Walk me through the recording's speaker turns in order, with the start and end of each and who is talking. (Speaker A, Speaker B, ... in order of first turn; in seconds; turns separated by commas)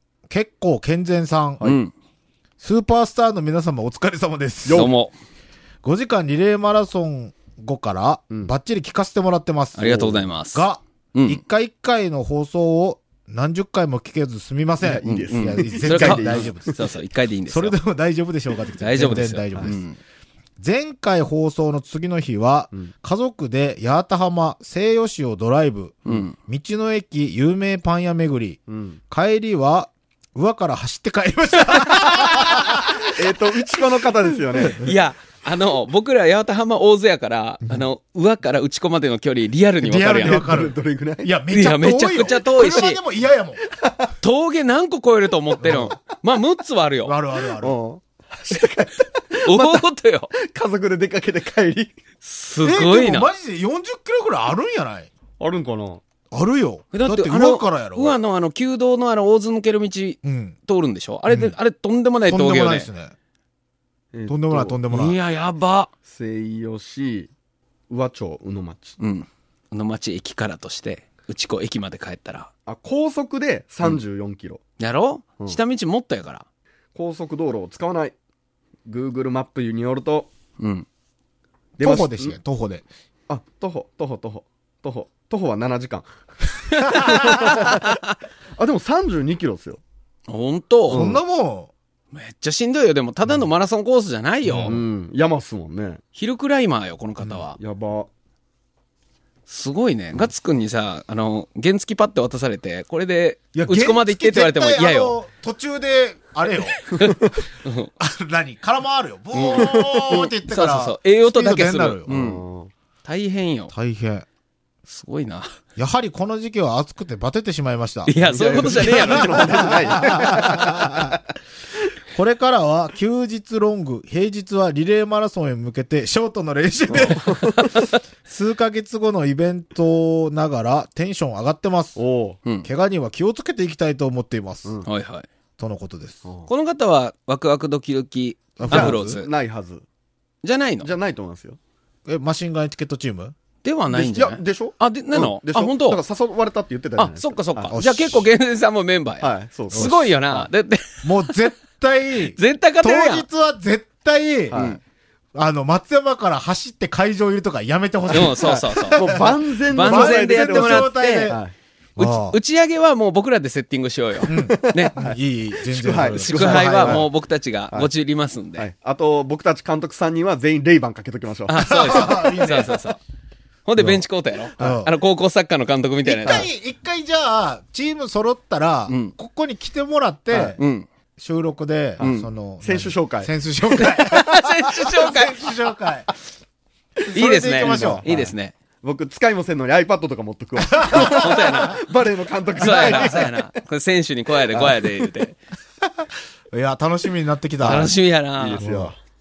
Speaker A: 0.3-1.6, Speaker B: 1.6-1.9, Speaker A: 2.6-4.9, Speaker C: 4.6-4.9, Speaker B: 4.7-5.1, Speaker A: 5.8-16.8, Speaker B: 9.8-11.4, Speaker C: 14.8-16.8, Speaker B: 15.0-17.8, Speaker A: 17.5-19.8, Speaker B: 18.8-20.0, Speaker A: 20.6-33.3, Speaker B: 26.1-26.3, Speaker C: 28.7-29.0, Speaker C: 33.0-34.8, Speaker B: 34.8-40.5, Speaker A: 39.8-43.6, Speaker C: 40.1-41.3, Speaker B: 41.5-43.0, Speaker C: 43.7-44.1, Speaker B: 44.2-47.1, Speaker A: 45.6-45.9, Speaker A: 47.0-47.8, Speaker C: 47.6-51.9, Speaker B: 49.4-50.3, Speaker B: 52.2-53.3, Speaker A: 52.6-55.1, Speaker C: 55.4-56.0, Speaker A: 56.3-58.2, Speaker B: 56.9-62.9, Speaker A: 60.2-60.5, Speaker A: 61.3-61.5, Speaker A: 62.2-63.1, Speaker C: 64.1-64.8, Speaker A: 64.3-65.2, Speaker B: 64.9-65.9, Speaker C: 66.1-67.3, Speaker C: 67.9-69.0, Speaker B: 69.0-72.5, Speaker C: 72.7-74.6, Speaker B: 74.8-76.4, Speaker C: 76.9-78.1, Speaker C: 78.8-80.3, Speaker B: 80.6-80.9, Speaker A: 81.8-82.8, Speaker C: 81.8-82.4, Speaker C: 83.3-86.1, Speaker C: 86.7-88.0, Speaker B: 86.9-88.0, Speaker A: 86.9-87.5, Speaker C: 88.6-89.8, Speaker B: 90.3-91.0, Speaker C: 90.9-91.2, Speaker A: 90.9-91.7, Speaker B: 92.1-94.8, Speaker A: 94.4-94.8, Speaker C: 94.6-96.0, Speaker B: 96.2-97.6, Speaker C: 97.6-98.1, Speaker B: 99.5-105.2, Speaker A: 103.5-107.0, Speaker B: 106.9-107.9, Speaker A: 108.0-112.1, Speaker B: 109.3-112.4, Speaker C: 109.5-110.3, Speaker C: 112.1-112.7, Speaker B: 113.0-113.7, Speaker A: 113.7-114.2, Speaker B: 114.9-115.5, Speaker A: 115.8-121.2, Speaker B: 118.0-120.0, Speaker C: 118.2-121.2, Speaker A: 122.1-132.0, Speaker C: 126.9-127.7, Speaker B: 127.6-127.9, Speaker C: 131.9-132.4, Speaker A: 132.6-134.8, Speaker B: 134.8-135.3, Speaker A: 135.6-136.2, Speaker B: 136.5-139.3, Speaker A: 138.6-139.2, Speaker C: 138.7-139.8, Speaker B: 140.4-140.9, Speaker C: 140.8-141.6, Speaker A: 142.1-143.3, Speaker B: 143.6-146.0, Speaker C: 143.9-147.7, Speaker B: 147.0-151.4, Speaker A: 147.7-148.2, Speaker C: 149.2-150.1, Speaker A: 149.7-150.5, Speaker A: 151.0-154.6, Speaker B: 152.3-153.2, Speaker C: 154.5-154.8, Speaker B: 154.5-154.8, Speaker A: 155.3-161.4, Speaker B: 158.1-161.3, Speaker C: 158.1-161.5, Speaker A: 162.0-162.4, Speaker B: 162.0-165.0, Speaker C: 164.2-167.1, Speaker A: 164.3-167.1, Speaker B: 166.1-168.7, Speaker C: 168.6-172.0, Speaker B: 171.5-173.0, Speaker A: 171.6-172.8, Speaker B: 173.6-176.5, Speaker A: 173.8-174.0, Speaker C: 174.6-174.8, Speaker A: 174.6-174.9, Speaker A: 176.0-180.6, Speaker B: 178.9-179.1, Speaker B: 180.4-180.9, Speaker A: 181.2-186.1, Speaker C: 182.0-183.3, Speaker B: 182.0-182.3, Speaker B: 183.7-185.5, Speaker C: 187.0-193.4, Speaker A: 187.1-188.1, Speaker B: 187.1-188.5, Speaker A: 190.6-191.6, Speaker B: 190.9-191.8, Speaker B: 192.6-195.4, Speaker A: 192.6-193.3, Speaker C: 194.5-194.9, Speaker A: 195.8-197.9, Speaker B: 197.6-198.6, Speaker C: 198.4-199.0, Speaker A: 198.6-198.9